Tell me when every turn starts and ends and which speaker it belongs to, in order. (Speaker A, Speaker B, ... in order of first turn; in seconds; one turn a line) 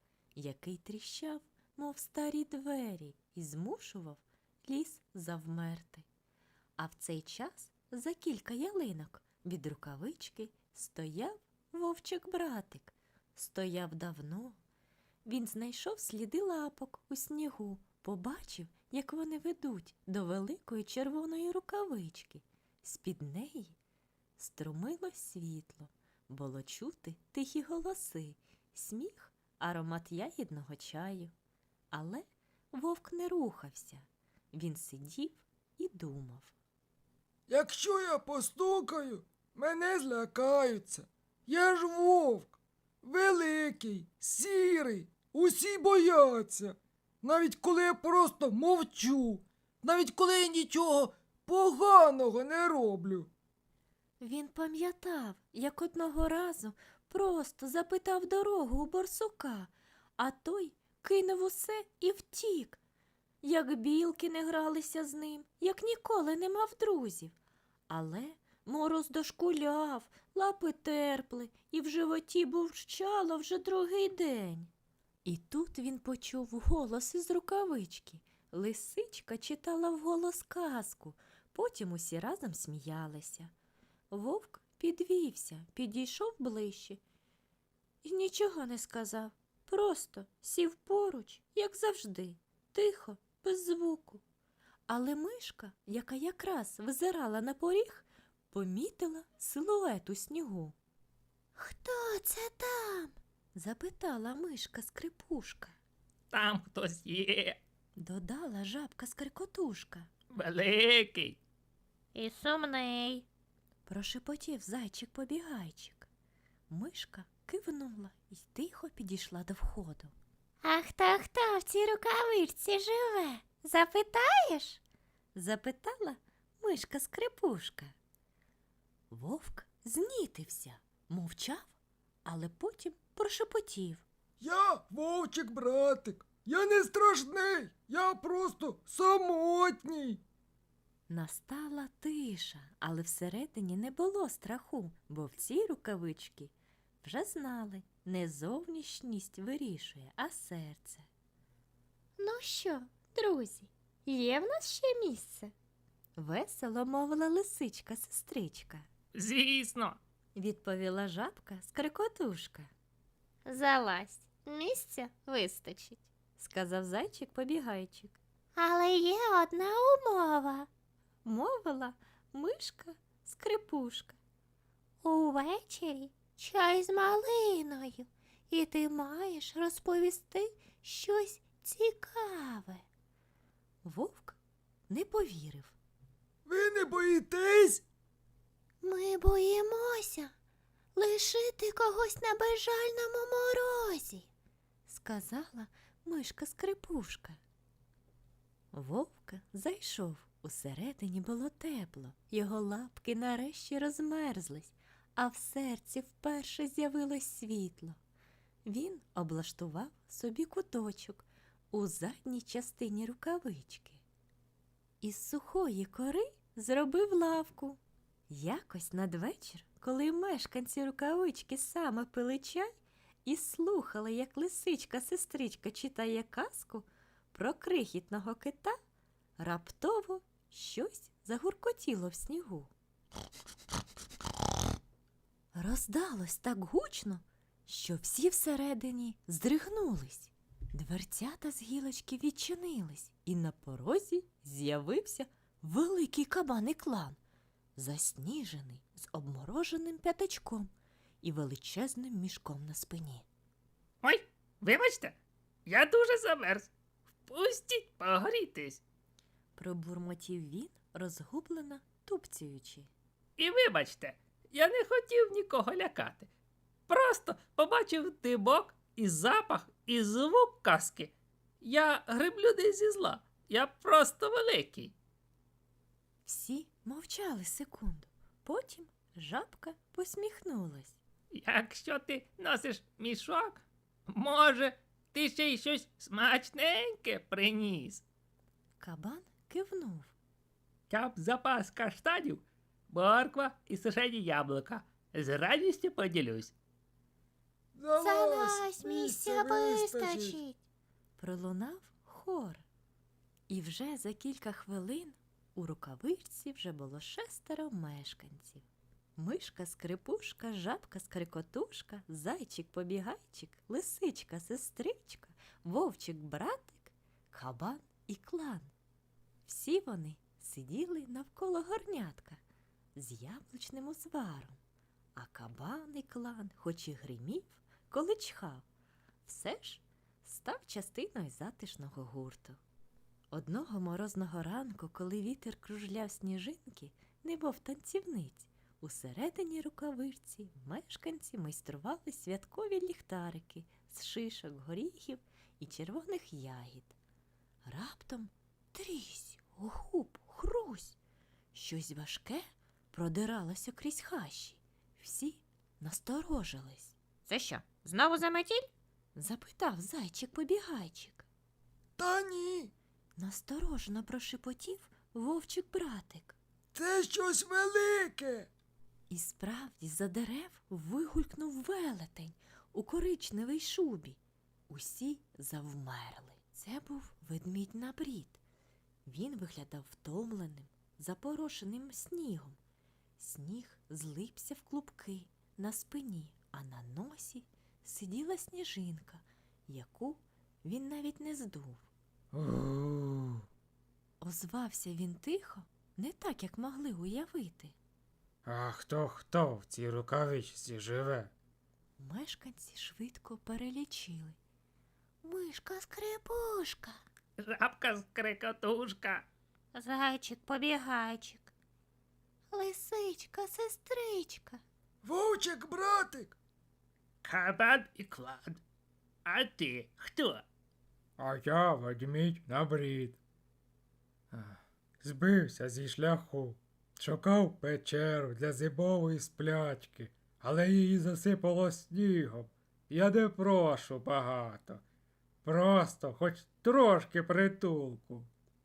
Speaker A: 0.3-6.1
Speaker A: 6.8-14.6
Speaker A: 15.2-23.8
Speaker A: 24.4-31.3
Speaker A: 31.9-36.5
Speaker B: 37.5-53.3
Speaker A: 54.2-62.8
Speaker A: 63.4-67.3
Speaker A: 67.9-74.7
Speaker A: 75.2-83.5
Speaker A: 84.1-87.0
Speaker A: 88.0-94.2
Speaker A: 94.9-100.8
Speaker C: 101.5-103.1
Speaker A: 103.5-105.8
Speaker D: 106.3-107.6
Speaker A: 108.0-110.1
Speaker D: 110.3-111.4
Speaker C: 112.1-113.2
Speaker A: 113.9-116.1
Speaker A: 116.7-120.1
Speaker C: 120.6-124.8
Speaker A: 125.3-127.9
Speaker A: 129.1-131.8
Speaker A: 132.2-134.0
Speaker B: 134.4-140.2
Speaker A: 141.1-151.1
Speaker A: 152.2-155.5
Speaker C: 152.9-153.2
Speaker C: 154.1-155.4
Speaker A: 156.2-158.9
Speaker D: 159.1-160.0
Speaker A: 160.4-162.7
Speaker C: 163.4-166.0
Speaker A: 166.4-168.2
Speaker C: 168.6-170.7
Speaker A: 171.2-174.2
Speaker C: 175.0-182.8
Speaker A: 183.8-184.4
Speaker A: 184.9-185.8
Speaker B: 186.5-187.8
Speaker C: 188.8-190.3
Speaker C: 191.0-194.3
Speaker A: 194.9-197.4
Speaker A: 198.7-208.0
Speaker A: 208.7-214.0
Speaker A: 215.0-228.8
Speaker A: 229.4-232.7
Speaker A: 235.5-247.2
Speaker A: 247.8-250.7
Speaker A: 251.2-253.2
Speaker D: 254.0-255.1
Speaker D: 255.7-256.7
Speaker D: 257.3-258.8
Speaker A: 259.6-262.9
Speaker D: 263.4-266.3
Speaker D: 266.9-274.9
Speaker A: 276.2-281.0
Speaker D: 281.3-288.0
Speaker A: 288.8-290.1
Speaker D: 290.9-296.5
Speaker B: 297.8-300.4
Speaker C: 298.0-300.6
Speaker A: 301.2-302.6
Speaker A: 303.5-308.6
Speaker A: 309.2-318.7
Speaker A: 319.5-322.4
Speaker A: 323.0-324.6
Speaker A: 325.2-328.7
Speaker A: 329.2-332.6
Speaker A: 333.3-346.9
Speaker A: 347.6-351.0
Speaker A: 351.5-356.9
Speaker C: 357.2-358.7
Speaker A: 359.1-361.2
Speaker B: 362.0-362.7
Speaker A: 363.2-366.4
Speaker B: 366.7-368.5
Speaker A: 369.1-378.4
Speaker A: 379.1-382.6
Speaker A: 383.2-391.9
Speaker E: 392.3-393.4
Speaker A: 394.2-397.8
Speaker E: 398.4-401.3
Speaker A: 402.0-404.4
Speaker C: 405.2-407.0
Speaker D: 407.4-409.2
Speaker C: 409.8-411.5
Speaker C: 412.5-414.6
Speaker B: 415.0-416.4
Speaker D: 417.2-418.6
Speaker D: 419.2-420.4
Speaker E: 421.2-423.2
Speaker E: 424.3-434.8
Speaker E: 435.4-438.3